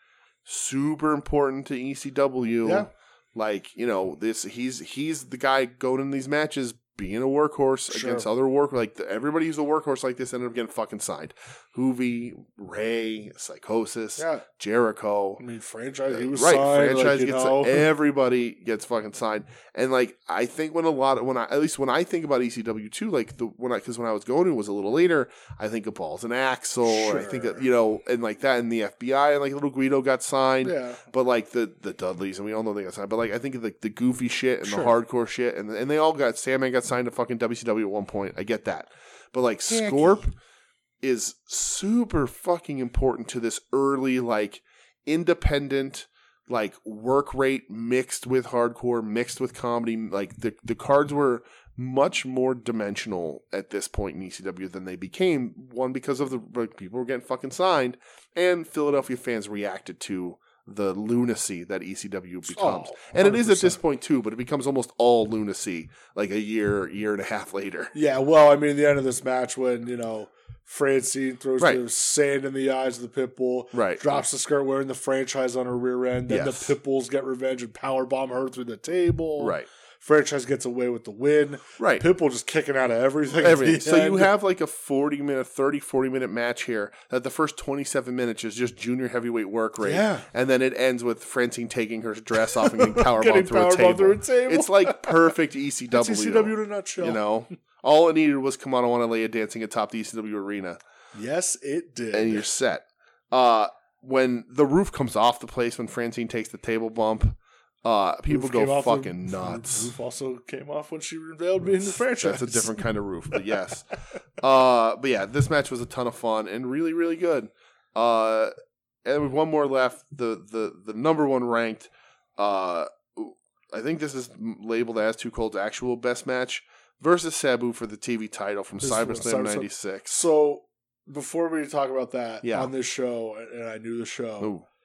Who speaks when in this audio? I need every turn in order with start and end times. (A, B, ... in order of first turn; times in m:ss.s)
0:00.4-0:15.4 A
0:02.6-0:02.9 B
0:07.9-0:08.3 B
0:14.2-0:14.4 B
0:15.4-0:17.9 B
0:16.1-0:40.3 A
0:26.8-0:27.6 B
0:30.6-0:31.0 B
0:34.6-0:34.9 B
0:39.7-0:40.2 B
0:41.0-1:07.9 A
1:02.5-1:03.8 B
1:07.9-1:24.3 B
1:13.7-1:14.0 A
1:16.3-1:16.7 A
1:19.4-1:19.7 A
1:21.8-1:22.0 A
1:23.4-1:40.8 A
1:29.8-1:30.3 B
1:32.5-1:35.3 B
1:35.9-1:37.2 B
1:41.1-1:42.5 B
1:42.1-1:49.9 A
1:48.3-1:52.9 B
1:51.8-1:58.5 A
1:59.0-2:10.2 A
2:08.8-2:14.6 B
2:12.4-2:12.7 A
2:14.4-2:14.7 A